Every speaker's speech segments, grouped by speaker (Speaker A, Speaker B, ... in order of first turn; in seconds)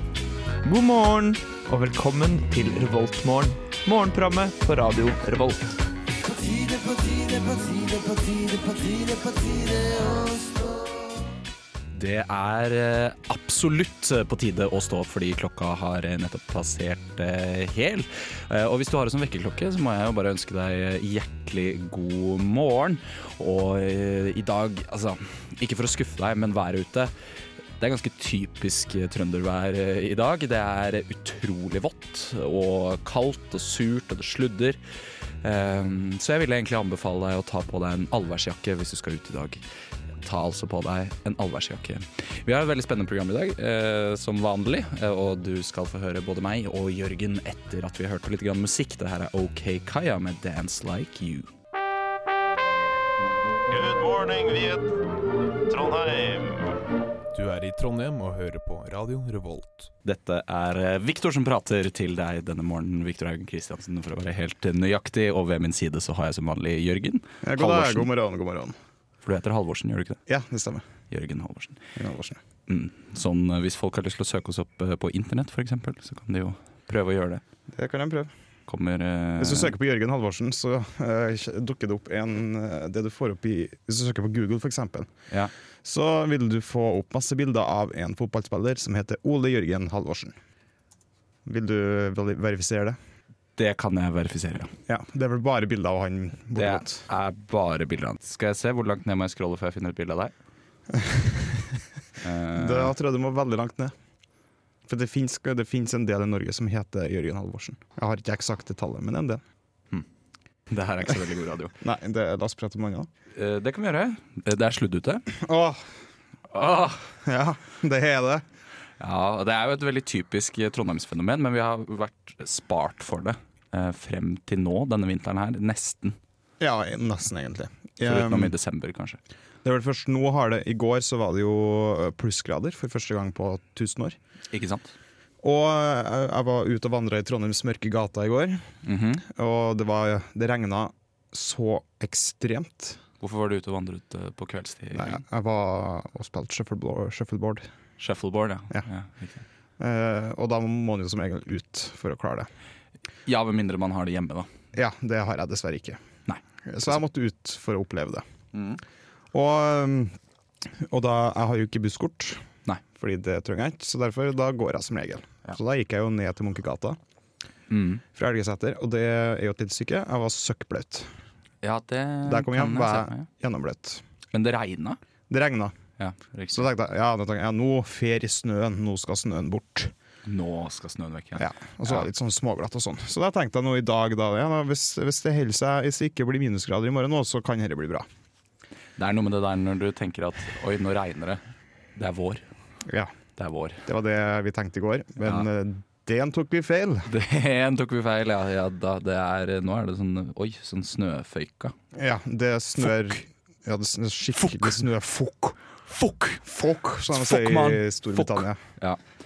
Speaker A: 0.6-10.7
Speaker B: 11.9-27.1, 27.8-34.8, 35.4-39.6, 40.2-51.5, 60.0-68.1, 69.2-70.2, 71.1-71.8, 72.7-77.4, 78.7-79.7, 93.6-94.7, 96.5-100.3, 102.2-102.9, 110.7-111.7, 113.3-115.3, 116.5-117.1, 119.0-126.2, 128.0-129.2, 134.5-134.9, 138.8-139.2, 143.2-145.2, 148.0-149.4, 153.2-154.5, 158.5-158.8, 167.7-168.0, 171.6-173.3, 174.3-175.0, 176.0-176.7, 180.2-182.1, 189.0-191.4, 191.9-192.4, 193.4-193.8, 197.1-201.7, 204.4-204.8, 205.9-206.4, 207.1-209.0
Speaker C: 53.7-55.0, 55.7-56.8
Speaker D: 57.3-59.9
Speaker E: 67.4-68.8, 70.3-70.8, 72.0-72.4, 77.7-78.3, 79.4-85.1, 85.8-90.3, 91.4-93.0, 94.9-97.0, 100.9-101.8, 102.5-103.9, 104.9-109.4, 111.8-113.1, 115.3-115.8, 117.2-118.4, 126.6-128.5, 129.6-134.2, 135.4-138.6, 139.2-143.0, 144.9-147.7, 149.8-152.5, 154.7-156.0, 156.7-158.2, 159.3-160.2, 160.7-162.4, 163.0-167.0, 168.1-171.1, 172.2-174.0, 175.3-175.7, 176.5-179.9, 181.3-188.1, 192.8-193.1, 193.8-197.1, 201.9-205.6, 206.4-208.6